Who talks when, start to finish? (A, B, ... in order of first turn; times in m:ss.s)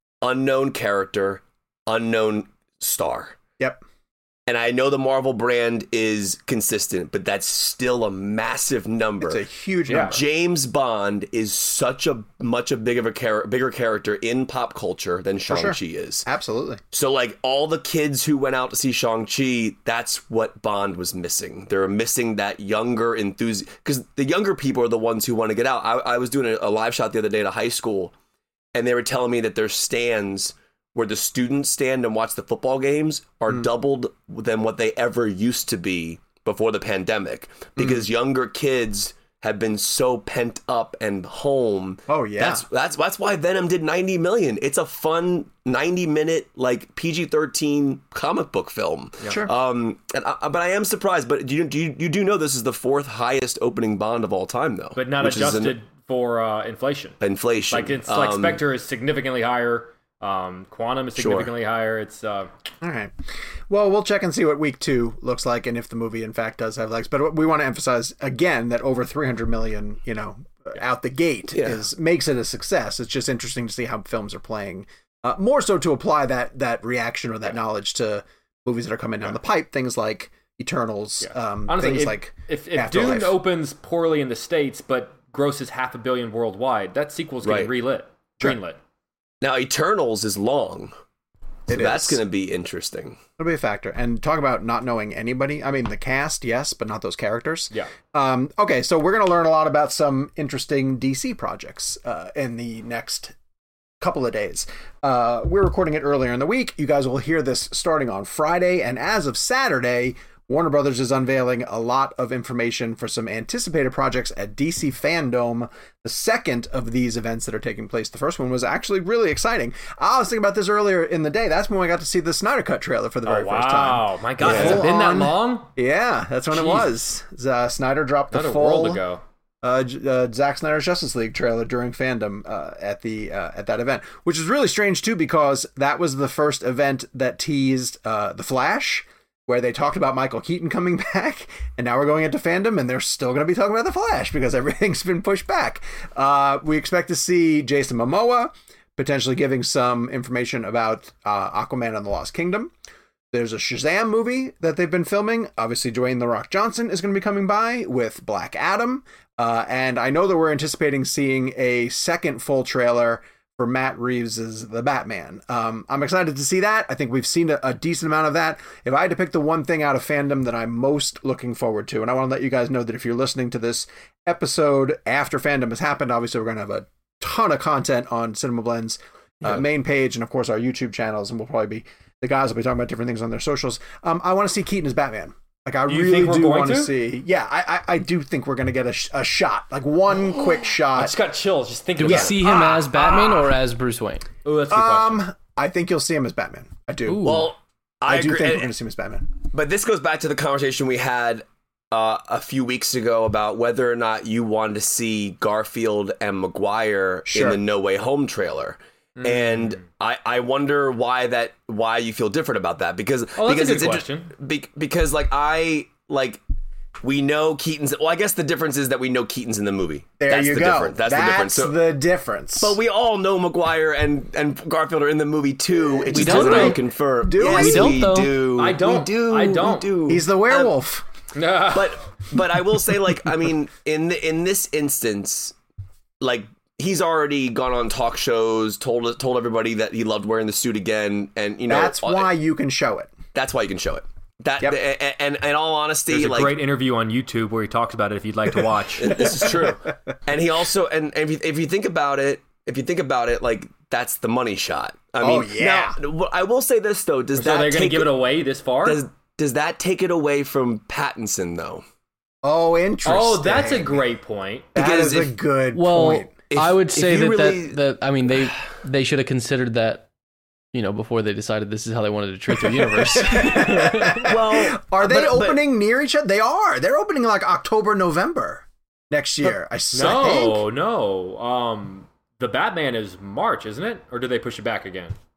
0:00.2-0:03.4 A
0:04.5-0:09.4 A
0:09.2-0:10.2 B
0:09.9-0:10.2 C
0:10.0-0:16.3 A
0:15.5-0:16.8 B
0:16.9-0:28.1 A
0:28.8-0:55.8 A
0:37.8-0:38.0 B
0:42.1-0:42.6 B
0:55.0-0:57.2 C
0:57.2-0:58.6 A
0:57.7-1:02.5 C
1:01.2-1:01.5 A
1:02.8-1:03.1 B
1:03.7-1:23.4 B
1:11.5-1:11.8 A
1:21.2-1:28.8 C
1:27.4-1:27.7 A
1:29.4-1:30.9 A
1:31.7-1:32.2 B
1:31.7-1:33.2 A
1:33.4-1:43.4 B
1:44.0-2:09.0 B
2:03.2-2:05.7 C
2:04.4-2:04.8 A
2:06.5-2:06.9 C
2:08.3-2:09.2 C
2:09.6-2:32.7 B
2:33.3-3:11.2 B
3:05.9-3:06.9 C
3:10.9-3:12.8 C
3:12.0-3:14.3 D
3:12.1-3:13.4 B
3:14.4-3:15.3 C
3:14.7-3:17.5 B
3:17.1-3:17.5 D
3:17.2-3:18.7 A
3:18.1-3:19.3 B
3:19.5-3:36.4 A
3:27.3-3:27.6 B
3:29.2-3:29.8 C
3:33.4-3:34.3 C
3:37.0-3:41.8 A
3:40.2-3:42.8 B
3:42.6-3:50.7 A
3:45.9-3:48.1 B
3:46.1-3:46.8 D
3:47.4-3:48.4 D
3:48.5-3:50.2 C
3:50.1-3:51.0 B
3:51.4-3:52.2 C
3:51.7-3:55.6 A
3:56.2-4:02.3 A
4:01.7-4:03.1 B
4:03.3-4:06.6 A
4:06.1-4:09.4 C
4:09.0-4:18.1 A
4:09.2-4:09.9 B
4:15.2-4:16.0 B
4:17.4-4:19.0 C
4:18.8-4:21.8 A
4:22.4-4:24.0 B
4:23.1-4:24.7 C
4:24.8-4:26.3 B
4:24.8-4:25.4 A
4:25.7-4:30.1 D
4:26.5-4:28.6 A
4:30.7-4:34.2 D
4:33.2-4:40.6 B
4:34.2-4:35.6 A
4:39.9-4:45.2 C